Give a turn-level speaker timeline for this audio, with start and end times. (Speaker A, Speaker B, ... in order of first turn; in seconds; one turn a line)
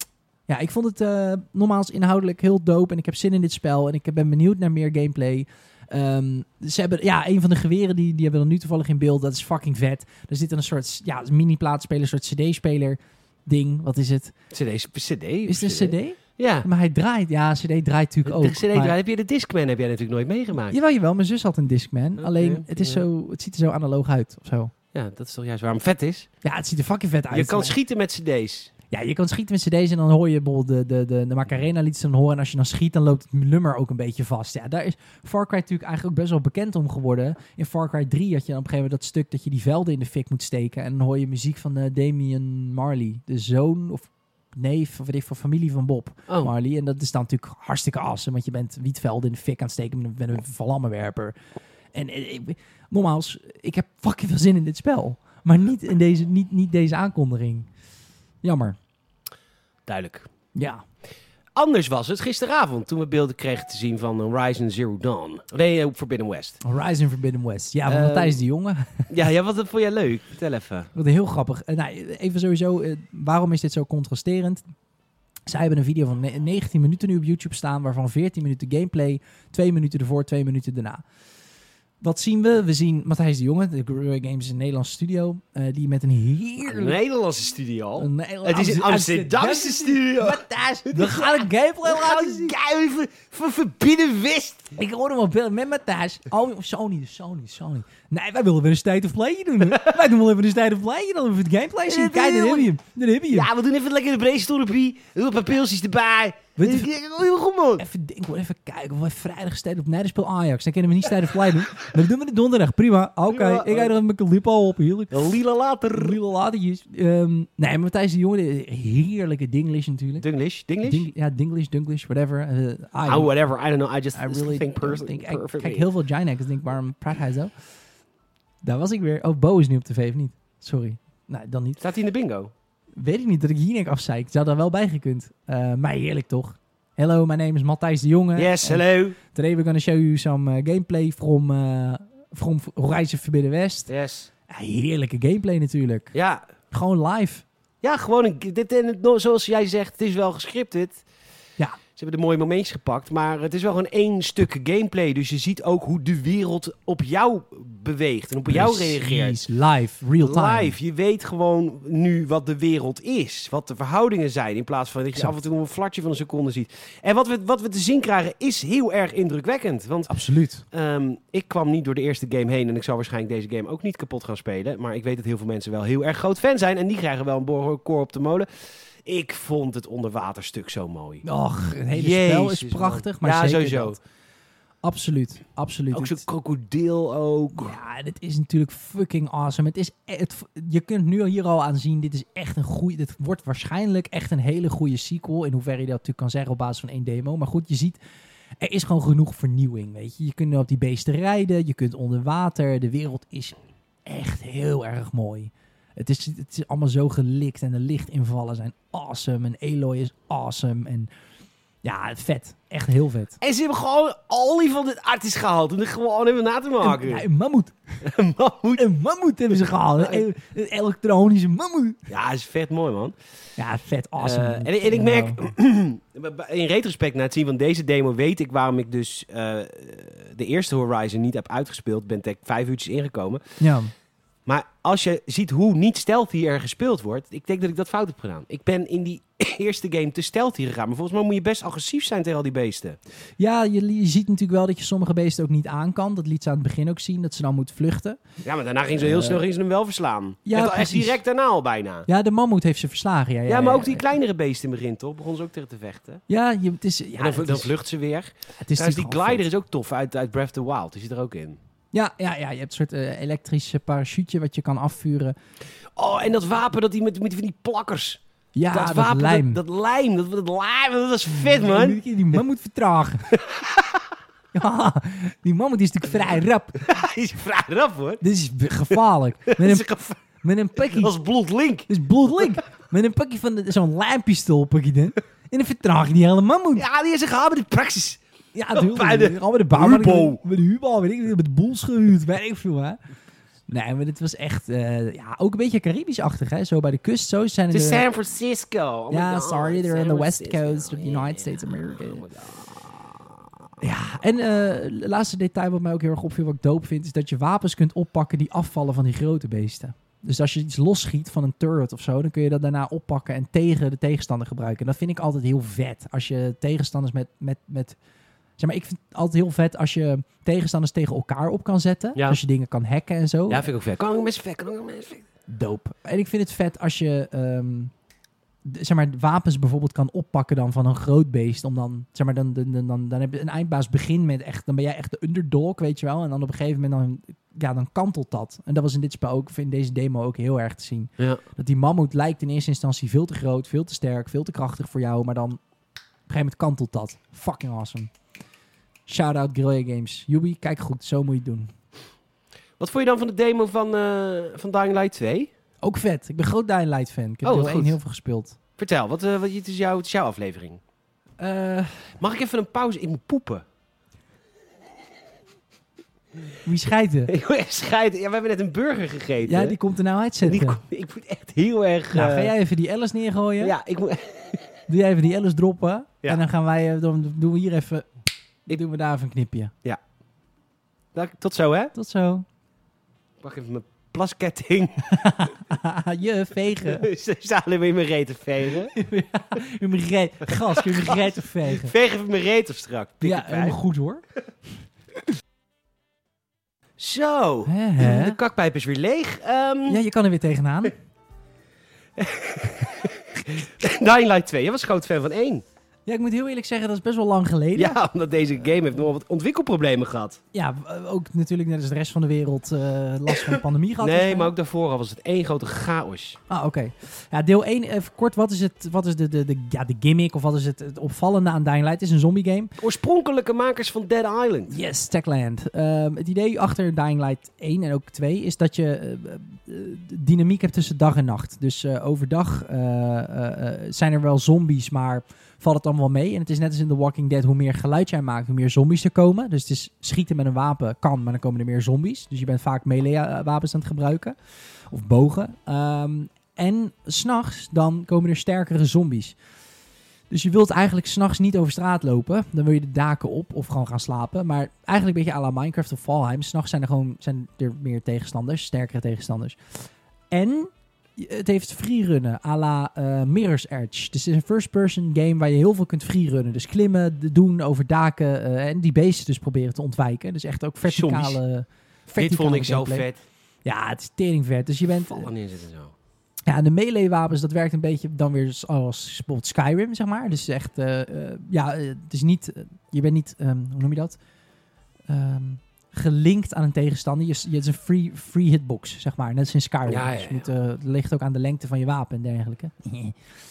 Speaker A: 0.5-14.3
Speaker B: 14.5-16.7
Speaker A: 15.5-18.9
Speaker B: 18.2-20.8
Speaker A: 20.7-24.7
Speaker B: 22.2-23.0
Speaker B: 24.9-26.3
Speaker A: 26.4-27.8
Speaker B: 27.3-28.7
Speaker A: 28.9-51.3
Speaker A: 51.9-57.7
Speaker A: 58.4-58.8
Speaker B: 59.9-60.3
Speaker A: 60.5-60.8
Speaker B: 61.5-66.6
Speaker A: 66.6-69.1
Speaker B: 67.9-68.4
Speaker B: 69.1-70.9
Speaker A: 70.9-74.6
Speaker A: 75.5-81.0
Speaker A: 82.0-87.0
Speaker B: 86.6-94.7
Speaker A: 88.0-92.5
Speaker A: 94.8-103.5
Speaker B: 101.9-102.7
Speaker B: 103.3-107.8
Speaker A: 106.6-106.9
Speaker A: 107.8-115.4
Speaker B: 113.3-113.9
Speaker B: 115.1-116.2
Speaker A: 115.9-120.2
Speaker B: 120.2-121.1
Speaker A: 120.8-123.3
Speaker B: 123.0-125.9
Speaker A: 124.1-127.5
Speaker A: 128.6-131.8
Speaker B: 131.8-132.5
Speaker A: 132.9-143.9
Speaker B: 138.3-139.2
Speaker B: 143.9-144.3
Speaker A: 144.5-146.1
Speaker B: 146.1-146.4
Speaker A: 146.7-147.4
Speaker B: 147.8-151.0
Speaker B: 151.9-159.4
Speaker A: 158.5-160.8
Speaker B: 160.2-170.1
Speaker A: 170.1-170.6
Speaker B: 170.7-181.2
Speaker A: 181.2-184.0
Speaker B: 181.9-184.0
Speaker A: 184.8-186.2
Speaker B: 185.9-187.8
Speaker A: 187.6-198.0
Speaker A: 198.6-211.1
Speaker A: 211.8-213.4
Speaker B: 213.4-217.2
Speaker A: 216.8-217.7
Speaker B: 218.0-218.8
Speaker A: 218.8-222.0
Speaker B: 222.1-223.1
Speaker A: 223.6-225.4
Speaker B: 224.2-233.5
Speaker A: 233.6-233.9
Speaker B: 234.4-243.0
Speaker A: 243.4-248.2
Speaker B: 248.4-252.1
Speaker A: 249.0-249.4
Speaker A: 250.4-251.2
Speaker A: 252.1-254.0
Speaker B: 253.5-256.2
Speaker A: 256.3-257.7
Speaker B: 257.2-261.6
Speaker A: 258.6-259.4
Speaker A: 261.9-265.3
Speaker B: 265.9-272.0
Speaker A: 268.5-269.6
Speaker A: 271.4-273.3
Speaker B: 273.3-274.0
Speaker A: 274.5-276.9
Speaker B: 276.8-278.2
Speaker A: 278.2-281.1
Speaker B: 279.5-280.2
Speaker B: 280.8-281.9
Speaker A: 281.9-286.8
Speaker B: 286.7-290.4
Speaker A: 288.5-293.0
Speaker A: 293.7-298.0
Speaker B: 297.7-303.0
Speaker A: 299.1-302.2
Speaker A: 303.8-318.0
Speaker A: 318.6-323.7
Speaker B: 323.5-325.2
Speaker A: 325.5-327.9
Speaker A: 328.6-345.6
Speaker A: 346.3-348.1
Speaker A: 349.1-351.7
Speaker B: 352.8-355.5
Speaker A: 355.8-358.6
Speaker B: 357.4-357.9
Speaker B: 358.8-360.8
Speaker A: 361.4-362.0
Speaker B: 362.2-363.6
Speaker A: 366.6-367.3
Speaker B: 367.3-369.8
Speaker A: 369.4-370.8
Speaker B: 370.4-372.5
Speaker A: 372.1-373.7
Speaker B: 373.6-374.6
Speaker A: 374.9-378.1
Speaker A: 378.7-379.7
Speaker B: 381.1-381.9
Speaker A: 381.9-382.4
Speaker B: 383.4-385.4
Speaker A: 385.1-387.1
Speaker B: 386.8-388.9
Speaker A: 388.9-391.9
Speaker B: 390.5-393.8
Speaker A: 393.2-394.2
Speaker B: 397.0-400.0
Speaker A: 397.7-398.4
Speaker A: 399.9-400.9
Speaker B: 402.2-405.6
Speaker A: 406.1-408.0
Speaker B: 407.8-410.4
Speaker A: 410.5-414.5
Speaker B: 413.4-416.4
Speaker A: 416.5-422.8
Speaker B: 422.8-424.8
Speaker A: 424.7-444.4
Speaker A: 444.9-449.4
Speaker A: 450.3-473.0
Speaker B: 470.8-471.4
Speaker B: 472.2-473.2
Speaker A: 473.6-475.3
Speaker B: 474.9-475.9
Speaker A: 476.4-484.2
Speaker A: 485.1-493.2
Speaker B: 489.9-490.5